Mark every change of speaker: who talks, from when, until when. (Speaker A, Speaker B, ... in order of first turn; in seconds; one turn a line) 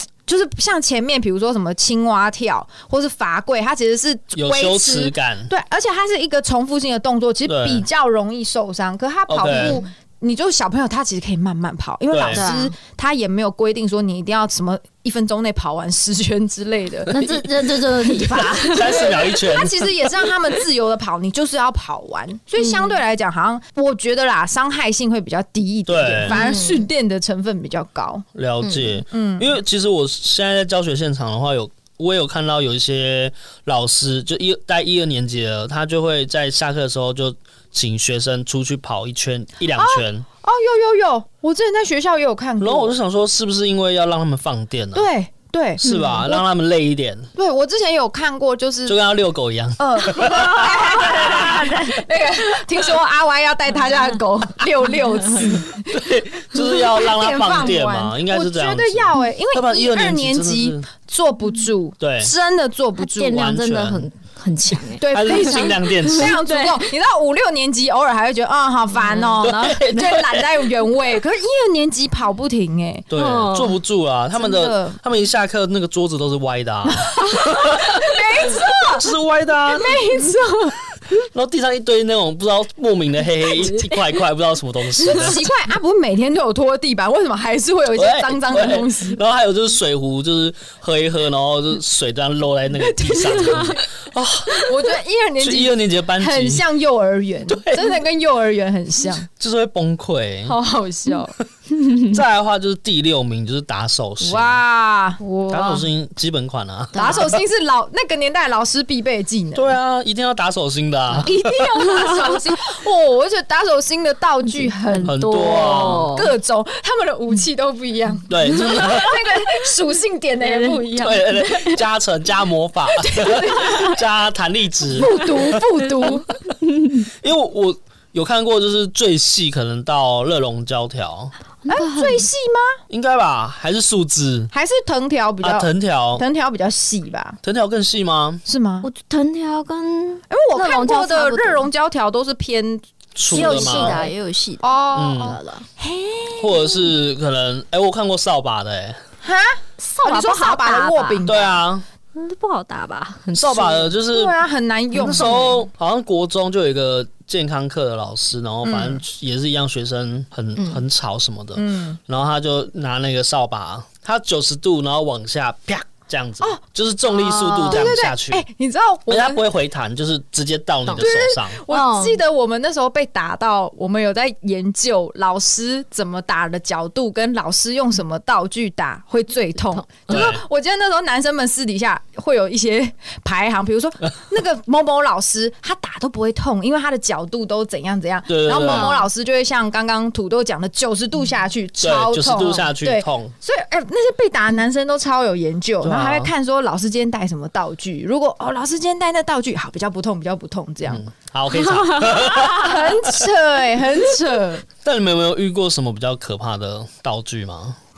Speaker A: 0.2-17.2
Speaker B: 4.3-5.5
Speaker B: 7.5-7.8
Speaker B: 9.3-9.8
Speaker C: 9.5-9.8
Speaker B: 12.1-12.4
Speaker C: 12.3-12.7
Speaker B: 17.1-17.4
Speaker C: 17.1-19.3
Speaker B: 18.1-20.1
Speaker A: 18.6-28.2
Speaker C: 22.6-23.0
Speaker B: 25.9-26.4
Speaker C: 26.3-26.9
Speaker B: 28.3-40.2
Speaker C: 28.6-29.0
Speaker A: 29.1-29.5
Speaker A: 39.8-42.9
Speaker B: 42.6-45.1
Speaker A: 44.9-46.4
Speaker B: 45.8-47.3
Speaker C: 45.8-46.2
Speaker A: 47.3-49.0
Speaker B: 48.9-51.9
Speaker A: 49.8-56.0
Speaker C: 50.2-52.0
Speaker B: 55.4-60.9
Speaker A: 56.5-63.5
Speaker B: 62.0-62.3
Speaker C: 63.0-66.9
Speaker B: 63.3-64.0
Speaker A: 65.0-73.1
Speaker B: 65.1-66.4
Speaker C: 69.0-69.3
Speaker B: 69.4-70.7
Speaker B: 73.1-80.0
Speaker C: 73.1-73.8
Speaker A: 74.3-75.0
Speaker A: 76.9-79.1
Speaker A: 79.7-80.8
Speaker B: 81.1-85.5
Speaker C: 83.6-84.0
Speaker A: 85.0-89.2
Speaker B: 87.9-96.6
Speaker A: 92.8-93.8
Speaker A: 94.5-99.3
Speaker B: 97.5-98.0
Speaker B: 99.3-100.5
Speaker A: 100.4-101.3
Speaker B: 101.8-104.6
Speaker A: 104.2-105.8
Speaker B: 105.5-107.4
Speaker C: 106.9-107.3
Speaker A: 106.9-109.8
Speaker B: 109.5-111.6
Speaker A: 111.2-121.8
Speaker C: 114.8-116.3
Speaker B: 115.0-116.1
Speaker B: 118.3-119.3
Speaker C: 120.4-120.8
Speaker B: 121.0-125.6
Speaker A: 122.9-124.0
Speaker A: 124.9-126.3
Speaker B: 127.0-131.3
Speaker C: 131.7-132.3
Speaker A: 131.7-132.8
Speaker B: 132.9-134.5
Speaker A: 134.5-137.4
Speaker B: 135.4-136.2
Speaker B: 137.4-138.4
Speaker A: 138.4-138.9
Speaker C: 138.8-141.7
Speaker A: 140.3-144.1
Speaker B: 143.1-144.1
Speaker C: 143.3-145.7
Speaker A: 144.6-146.8
Speaker B: 144.9-145.4
Speaker B: 146.4-149.0
Speaker A: 149.2-151.6
Speaker C: 149.8-151.3
Speaker B: 151.2-151.8
Speaker C: 152.1-153.9
Speaker B: 153.3-154.3
Speaker A: 154.1-155.5
Speaker B: 154.9-168.4
Speaker C: 155.2-155.5
Speaker A: 158.6-159.0
Speaker A: 161.5-162.0
Speaker C: 167.2-168.0
Speaker A: 167.2-169.4
Speaker B: 169.1-171.6
Speaker A: 171.0-201.0
Speaker C: 171.7-172.2
Speaker C: 179.7-180.3
Speaker B: 180.1-180.4
Speaker B: 188.3-189.0
Speaker C: 188.6-189.1
Speaker B: 191.8-193.3
Speaker B: 195.8-196.3
Speaker B: 200.9-203.2
Speaker A: 202.1-204.6
Speaker B: 204.8-207.8